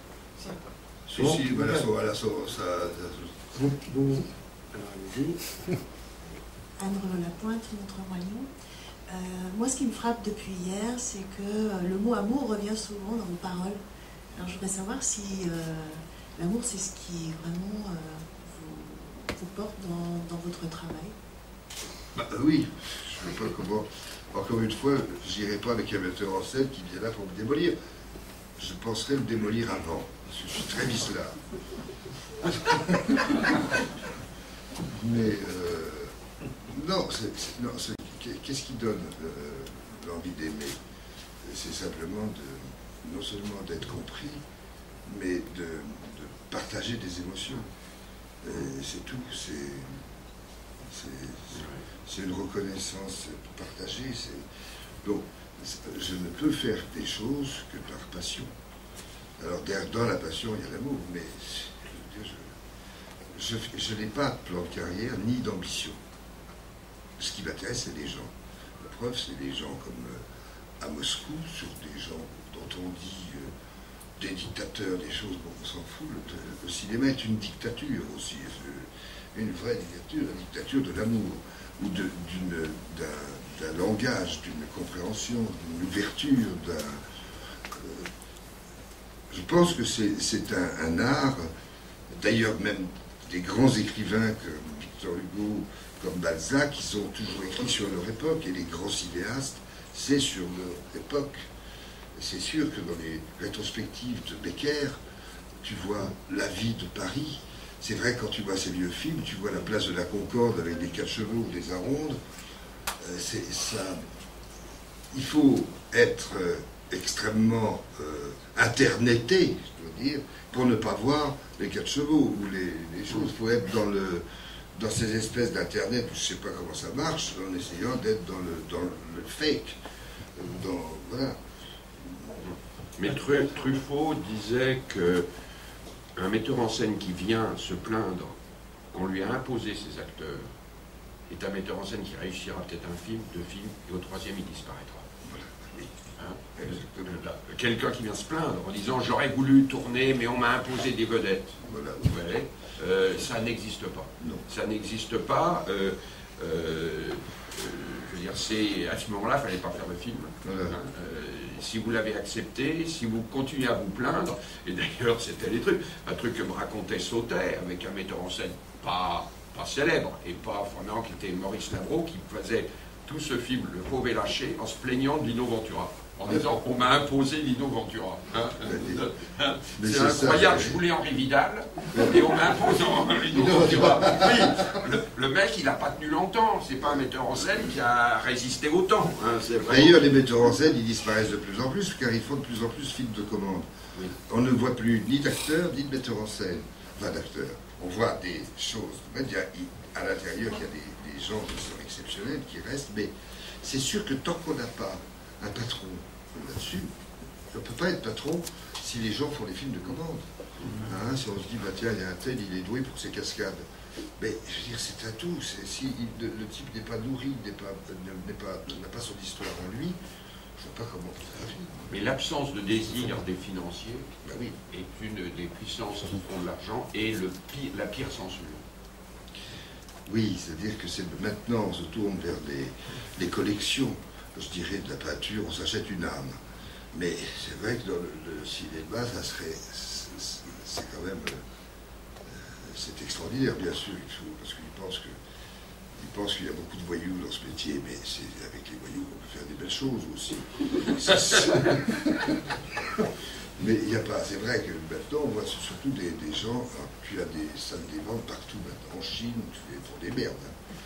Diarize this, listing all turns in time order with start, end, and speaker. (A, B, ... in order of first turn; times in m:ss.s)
0:01.0-0:03.5 A
0:01.1-0:01.9 B
0:03.5-0:05.5 B
0:06.8-0:08.5 C
0:09.1-0:13.8 C
0:14.3-0:21.1 C
0:22.2-0:27.7 A
0:28.6-0:31.4 A
0:32.4-0:33.8 A
0:34.9-0:36.1 A
0:36.6-0:40.7 A
0:41.4-0:44.4 A
0:45.0-0:47.7 A
0:48.4-0:49.9 A
0:50.9-0:54.4 A
0:51.5-0:51.8 D
0:55.0-0:58.5 A
0:59.4-1:02.5 A
1:03.3-1:06.0 A
1:07.2-1:10.2 A
1:10.8-1:13.5 A
1:14.2-1:27.0 A
1:27.7-1:28.1 A
1:29.3-1:31.5 A
1:32.1-1:41.5 A
1:42.1-1:45.0 A
1:45.6-1:52.2 A
1:53.0-1:54.0 A
1:55.1-2:04.2 A
2:04.7-2:09.8 A
2:10.4-2:11.4 A
2:12.0-2:12.3 A
2:12.4-2:15.2 D
2:16.2-2:18.4 D
2:18.9-2:20.4 D
2:21.3-2:25.0 D
2:25.2-2:25.9 A
2:26.2-3:10.0 D
2:26.6-2:27.2 A
2:31.6-2:32.2 A
2:34.2-2:34.4 A
2:40.4-2:40.8 A
2:58.6-2:59.1 A
2:59.8-3:00.8 A
3:01.9-3:02.6 A
3:03.3-3:04.7 A
3:09.6-3:13.7 A
3:14.2-3:26.9 A
3:27.5-3:30.2 A
3:30.8-3:33.6 A
3:34.2-3:40.0 A
3:40.6-3:42.0 A
3:41.9-3:44.1 D
3:44.2-3:44.6 A
3:44.6-3:48.6 D
3:50.0-3:56.3 A
3:56.9-4:01.4 A
4:02.3-4:05.1 A
4:05.9-4:12.5 A
4:13.6-4:20.5 A